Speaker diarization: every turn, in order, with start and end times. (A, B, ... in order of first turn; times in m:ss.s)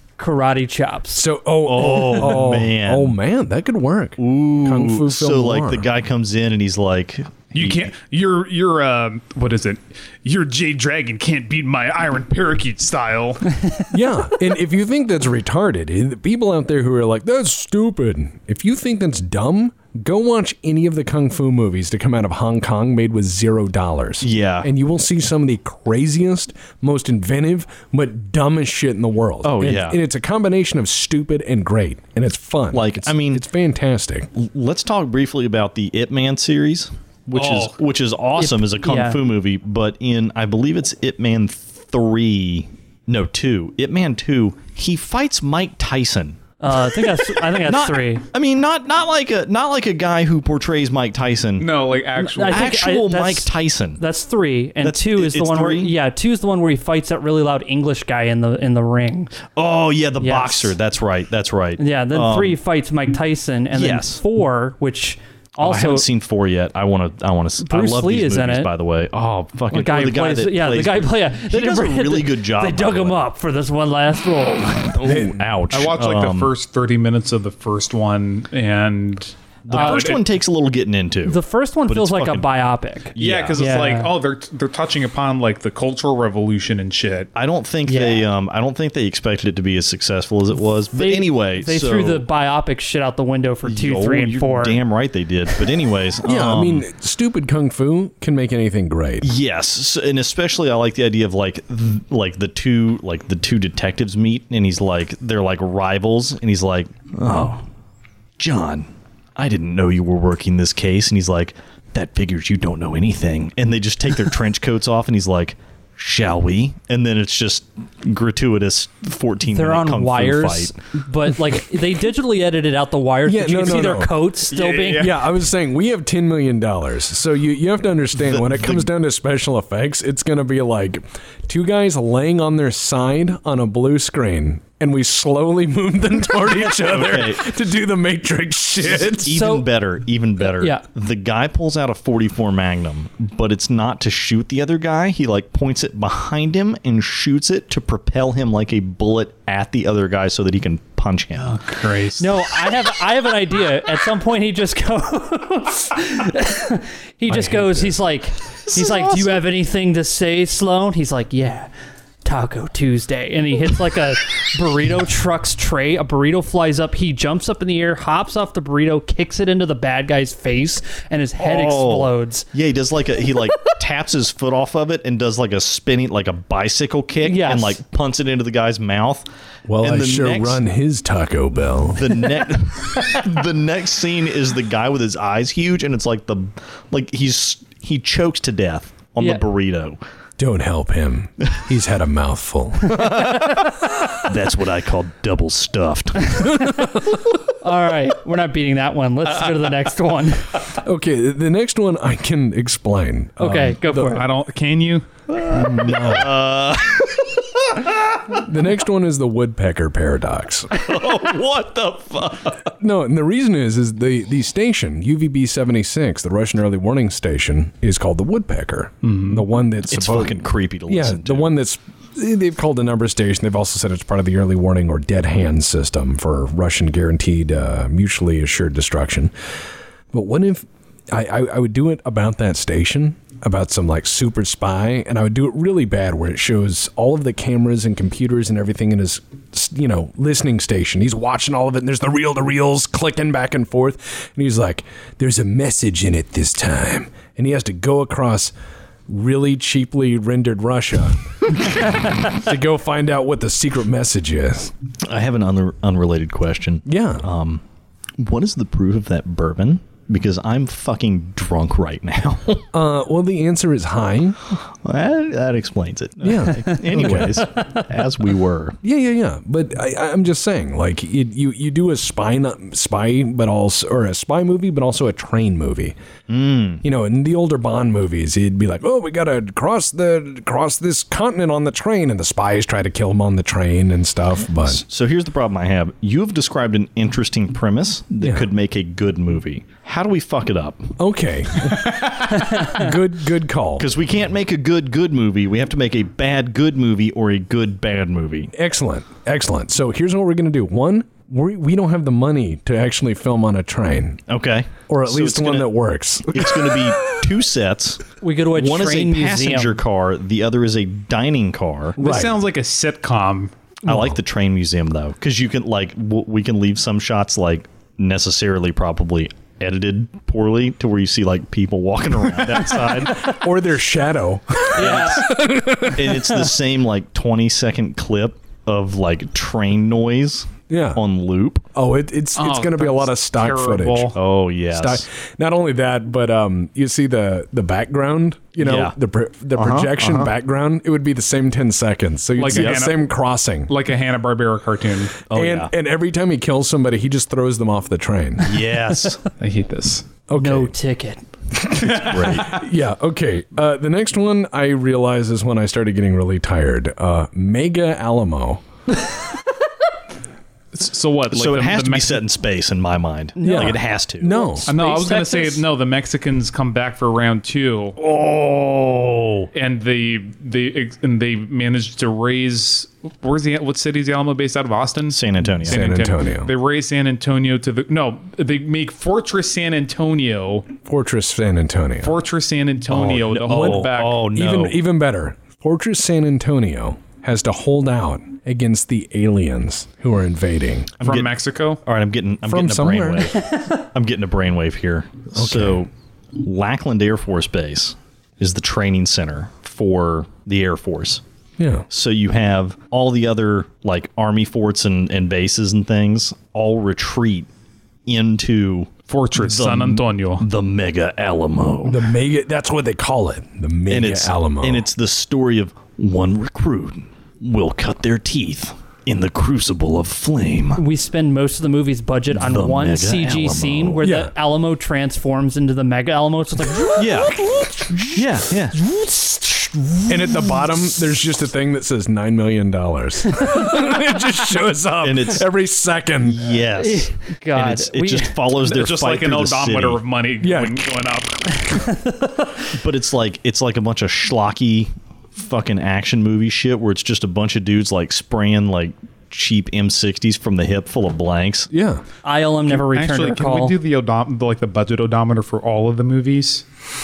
0:00.2-0:01.2 A
0:01.1-0:05.9 B
0:01.6-0:03.1 C
0:04.2-0:07.9 C
0:07.5-0:13.8 D
0:13.9-0:34.3 B
0:24.2-0:24.7 C
0:29.4-0:30.0 C
0:32.7-0:33.4 C
0:34.3-0:51.7 C
0:37.3-0:37.7 D
0:38.4-0:39.2 A
0:46.6-0:48.2 A
0:51.6-0:52.8 D
0:52.2-0:59.3 A
0:52.4-0:54.0 C
0:54.8-0:55.9 C
0:59.5-1:02.6 C
1:00.2-1:00.7 A
1:01.8-1:06.0 A
1:03.7-1:04.2 C
1:05.6-1:13.2 C
1:07.6-1:08.7 A
1:09.7-1:15.0 A
1:14.9-1:16.5 C
1:15.0-1:15.4 B
1:15.7-1:20.2 D
1:19.6-1:22.5 C
1:19.7-1:20.2 A
1:21.2-1:24.1 A
1:23.1-1:23.8 C
1:23.2-1:27.3 D
1:27.3-1:32.2 C
1:27.8-1:28.3 A
1:30.9-1:34.8 A
1:33.6-1:36.8 C
1:36.2-1:39.3 B
1:39.2-1:47.6 C
1:48.4-2:00.8 C
1:59.5-2:05.1 A
2:03.2-2:19.4 B
2:04.5-2:05.2 D
2:08.1-2:08.9 C
2:16.7-2:17.4 C
2:18.8-2:31.6 C
2:19.2-2:19.7 A
2:20.4-2:20.8 A
2:31.4-2:32.4 D
2:32.2-2:41.7 A
2:37.3-2:38.0 B
2:38.7-2:39.4 C
2:42.2-2:52.4 A
2:51.4-2:59.2 C
2:57.2-2:57.8 A
2:59.7-3:02.3 B
2:59.8-3:00.6 C
3:01.9-3:10.0 C
3:10.4-3:14.0 B
3:12.9-3:13.6 C
3:14.2-3:16.6 C
3:16.4-3:17.2 B
3:17.6-3:20.5 A
3:20.8-3:24.2 B
3:23.4-3:24.2 A
3:23.9-3:25.0 D
3:25.3-3:28.4 C
3:25.5-3:26.4 B
3:28.3-3:30.7 B
3:30.7-3:32.7 C
3:32.8-3:49.3 B
3:39.0-3:39.4 D
3:39.9-3:41.5 C
3:50.1-4:08.5 B
4:09.1-4:14.7 B
4:15.0-4:17.6 C
4:16.8-4:17.2 B
4:18.2-4:22.6 C
4:22.7-4:24.4 B
4:24.6-4:28.8 C
4:26.2-4:27.5 B
4:28.8-4:36.0 B
4:36.3-4:36.8 C
4:36.8-4:44.8 B
4:44.6-4:50.9 C
4:48.2-4:48.5 B
4:51.0-4:53.9 B
4:53.8-4:58.5 C
4:58.5-5:04.2 B
5:04.3-5:05.7 C
5:04.9-5:07.0 B
5:06.3-5:12.0 C
5:08.2-5:09.7 A
5:12.0-5:12.4 B
5:12.0-5:13.5 D
5:13.8-5:23.4 C
5:13.8-5:14.2 B
5:22.8-5:26.4 B
5:24.7-5:25.3 A
5:24.8-5:25.3 C
5:25.9-5:31.6 C
5:30.7-5:31.0 B
5:31.7-5:34.2 B
5:32.4-5:34.2 D
5:34.1-5:35.0 C
5:34.7-5:43.7 B
5:38.6-5:38.9 C
5:39.6-5:40.2 D
5:42.4-5:43.0 D
5:42.5-5:42.8 C
5:43.7-5:45.2 D
5:45.3-5:45.7 C
5:45.3-5:48.6 B
5:48.4-5:49.2 C
5:49.4-5:50.0 D
5:50.3-5:50.7 B
5:50.3-5:51.2 A
5:51.5-5:58.6 B
5:51.8-5:52.4 D
5:52.0-5:52.6 C
6:00.7-6:02.2 D
6:01.3-6:04.6 C
6:03.4-6:03.8 A
6:03.4-6:04.7 B
6:04.4-6:05.6 A
6:04.7-6:08.0 D
6:08.0-6:09.5 C
6:09.5-6:20.6 D
6:15.1-6:15.8 C
6:15.6-6:16.5 B
6:20.8-6:22.2 B
6:22.0-6:24.2 D
6:22.9-6:24.8 C
6:23.5-6:30.9 B
6:31.0-6:41.2 C
6:31.0-6:31.8 D
6:32.5-6:33.4 B
6:35.3-6:35.8 B
6:41.6-6:41.8 B
6:41.9-6:47.5 C
6:48.0-6:52.0 C
6:49.1-6:50.4 D
6:51.8-6:54.8 B
6:53.9-7:00.8 C
7:00.8-7:07.5 A
7:02.3-7:04.1 C
7:04.0-7:04.3 B
7:06.9-7:07.4 C
7:07.2-7:08.0 B
7:08.1-7:08.8 C
7:08.8-7:10.4 A
7:10.1-7:16.4 B
7:15.0-7:15.4 C
7:16.2-7:20.0 C
7:16.8-7:18.4 A
7:18.5-7:21.9 D
7:20.4-7:20.9 B
7:21.7-7:22.3 A
7:22.7-7:31.7 C
7:31.7-7:32.0 B
7:32.2-7:33.8 A
7:32.7-7:36.6 D